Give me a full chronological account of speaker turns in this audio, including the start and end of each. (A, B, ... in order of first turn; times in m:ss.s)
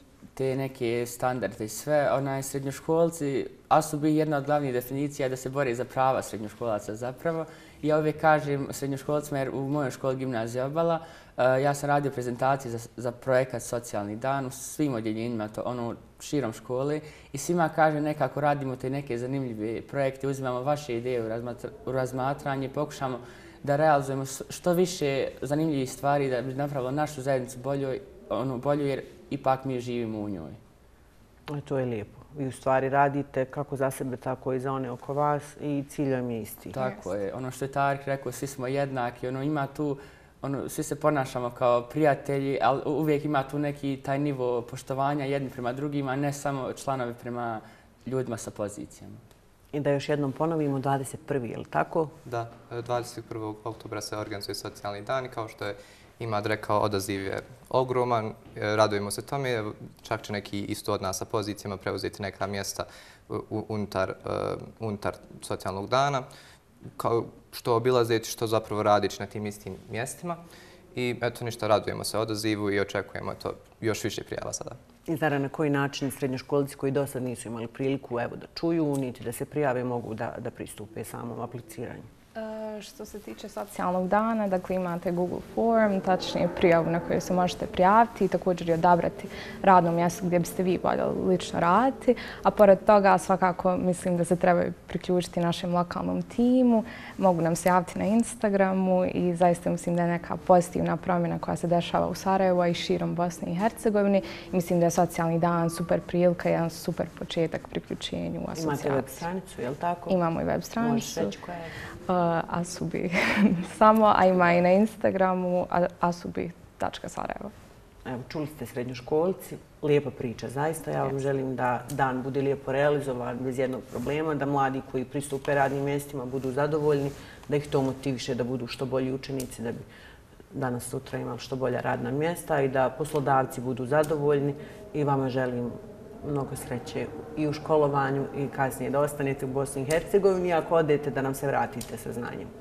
0:00.3-0:30.6 A
0:31.5-0:36.8 B
0:36.7-0:49.2 A
0:36.8-0:37.0 C
0:49.7-0:52.1 B
0:52.2-1:06.3 D
1:07.0-1:10.4 D
1:10.9-1:14.8 D
1:15.1-1:22.1 B
1:22.4-1:49.2 C
1:48.5-1:50.2 B
1:50.1-1:51.3 C
1:50.8-1:51.7 B
1:52.1-1:57.5 C
1:58.0-2:09.8 B
2:10.5-2:22.5 B